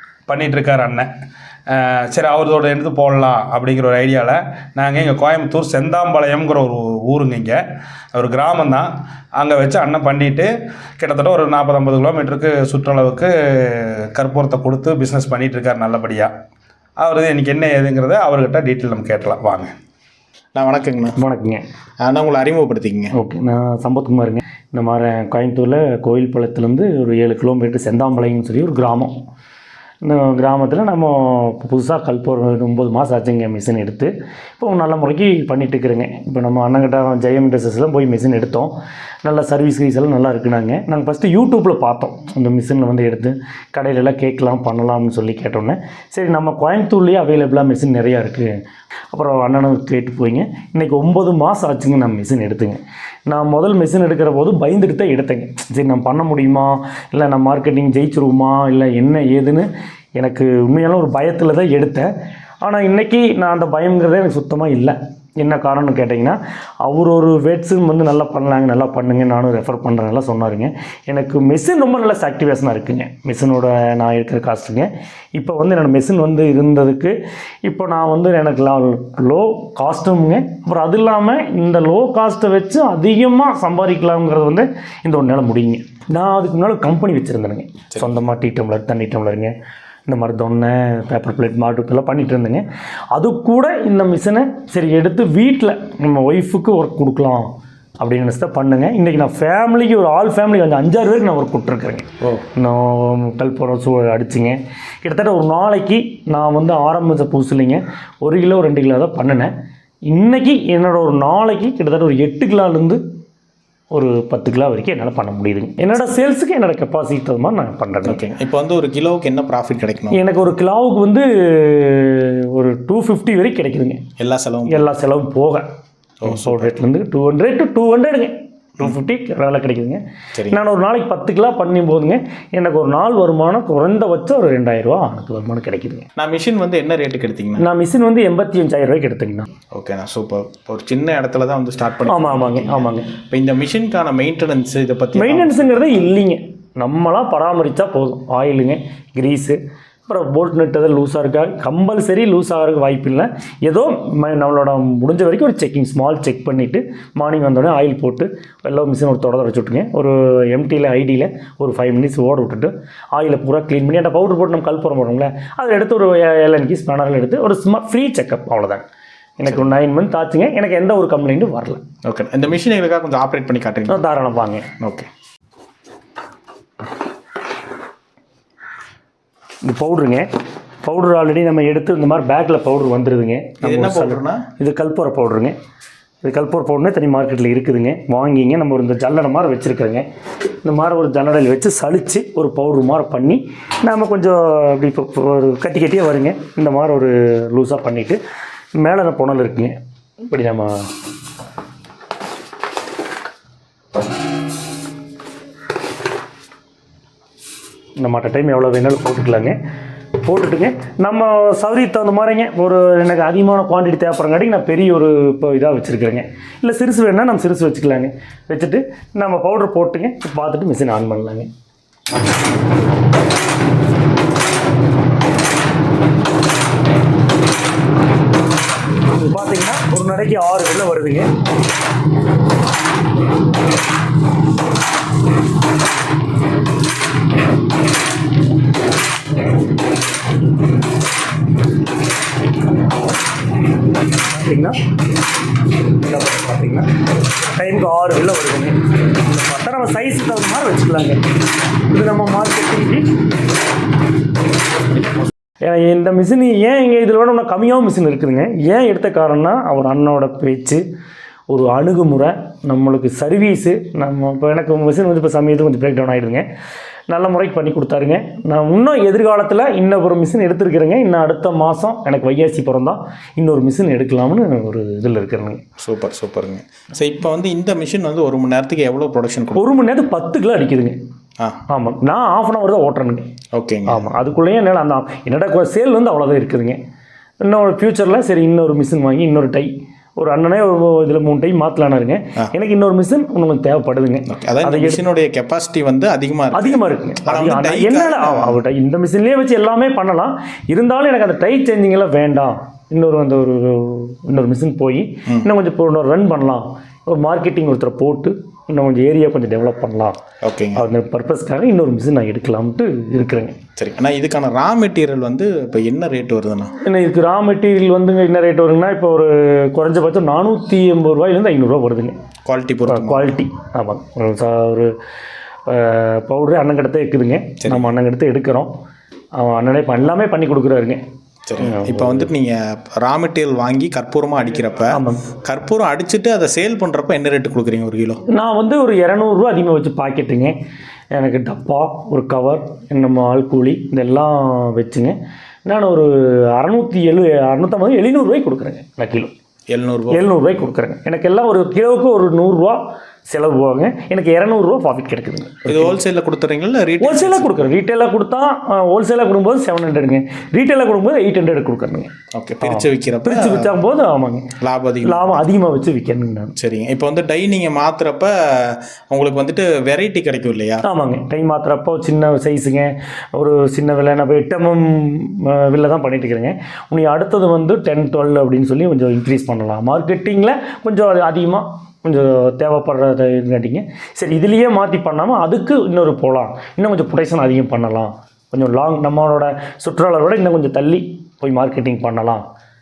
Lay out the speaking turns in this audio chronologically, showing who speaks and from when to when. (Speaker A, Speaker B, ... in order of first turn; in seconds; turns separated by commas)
Speaker A: 0.3-1.1, Speaker A: 1.7-7.6, Speaker A: 8.1-16.3, Speaker A: 17.0-19.7, Speaker B: 20.6-21.2, Speaker C: 21.2-21.6, Speaker B: 22.0-23.1, Speaker C: 23.1-29.1, Speaker C: 30.0-38.7, Speaker C: 39.2-48.5, Speaker C: 49.1-62.1, Speaker C: 62.6-89.5, Speaker B: 87.9-88.2, Speaker C: 90.1-97.5, Speaker C: 98.0-109.5, Speaker C: 110.1-113.0, Speaker C: 113.9-118.2, Speaker B: 118.0-120.2, Speaker C: 120.1-124.0, Speaker B: 124.2-124.9, Speaker C: 124.7-125.7, Speaker B: 126.2-126.7, Speaker C: 126.2-136.1, Speaker B: 130.3-130.6, Speaker B: 136.2-137.7, Speaker C: 137.6-139.5, Speaker B: 139.7-146.1, Speaker C: 142.1-143.1, Speaker C: 145.2-168.8, Speaker C: 169.4-171.8, Speaker B: 172.0-174.0, Speaker C: 173.9-174.7, Speaker B: 174.8-175.1, Speaker C: 179.6-180.3, Speaker C: 180.8-185.6, Speaker B: 183.6-184.4, Speaker C: 186.2-190.1, Speaker C: 190.6-198.2, Speaker C: 198.8-200.9, Speaker C: 208.0-209.6, Speaker C: 210.2-221.5, Speaker C: 229.1-231.3, Speaker C: 244.2-244.8, Speaker C: 245.9-251.2, Speaker C: 251.9-253.1, Speaker C: 255.6-260.8, Speaker C: 261.5-266.5, Speaker C: 267.1-275.6, Speaker B: 275.8-279.7, Speaker C: 279.6-280.9, Speaker C: 281.7-283.3, Speaker B: 283.5-284.1, Speaker C: 283.9-286.8, Speaker C: 287.4-295.0, Speaker B: 294.3-298.6, Speaker C: 296.5-310.2, Speaker B: 310.4-310.9, Speaker C: 310.8-313.6, Speaker B: 313.8-316.7, Speaker C: 316.8-322.2, Speaker B: 322.4-323.4, Speaker C: 322.9-324.9, Speaker C: 325.7-328.7, Speaker B: 327.6-327.9, Speaker C: 329.4-331.0, Speaker B: 331.5-338.2, Speaker C: 331.6-332.3, Speaker C: 334.9-335.2, Speaker C: 338.3-340.6, Speaker C: 341.1-345.1, Speaker C: 345.7-349.3, Speaker B: 349.7-350.3, Speaker C: 350.1-356.0, Speaker B: 355.7-357.7, Speaker C: 357.0-362.1, Speaker B: 362.3-363.7, Speaker C: 362.6-364.5, Speaker B: 364.6-365.3, Speaker C: 365.0-366.5, Speaker B: 366.6-370.8, Speaker C: 370.8-392.4